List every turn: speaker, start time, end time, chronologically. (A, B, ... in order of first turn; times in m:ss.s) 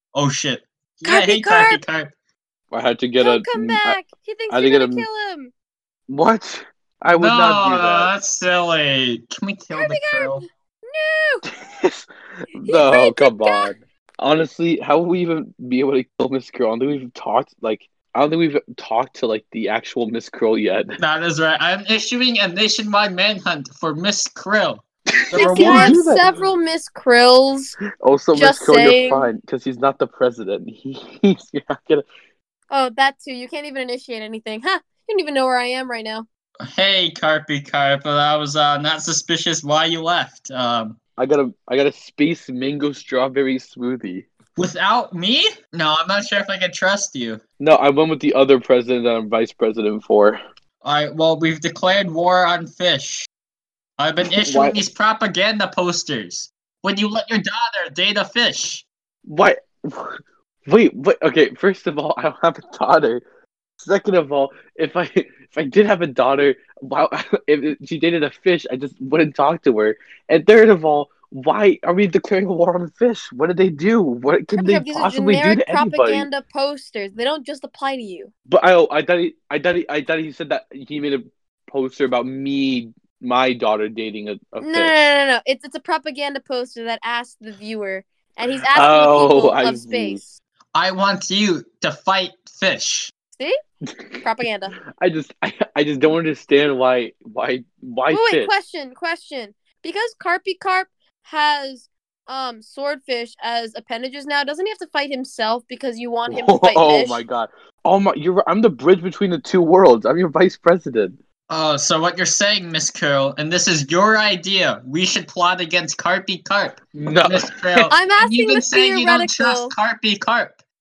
0:00.1-0:02.1 A
0:01.0-0:01.8 B
0:02.7-0:04.0 C
0:03.2-0:05.5 B
0:04.5-0:05.0 C
0:06.1-0:08.1 C
0:07.1-0:10.4 A
0:09.7-0:11.4 B
0:11.5-0:21.0 C
0:12.6-0:13.7 B
0:21.0-0:26.1 A
0:25.1-0:26.3 C
0:25.3-0:27.8 B
0:28.0-0:32.0 C
0:28.3-0:29.3 B
0:32.7-0:36.2 B
0:36.7-0:41.0 A
0:41.2-0:44.3 C
0:44.6-0:47.4 A
0:47.6-0:50.4 C
0:50.8-0:53.3 A
0:54.0-0:58.8 A
0:54.3-0:54.8 C
0:59.2-1:03.2 C
1:03.8-1:16.3 C
1:14.6-1:18.3 B
1:18.5-1:25.1 C
1:24.6-1:30.3 B
1:28.7-1:30.2 C
1:30.7-1:33.1 A
1:33.9-1:34.2 C
1:34.2-1:34.8 B
1:35.0-1:38.5 C
1:38.1-1:47.2 B
1:46.3-1:51.2 C
1:51.5-2:00.6 A
1:56.9-1:57.9 C
1:57.9-1:59.7 B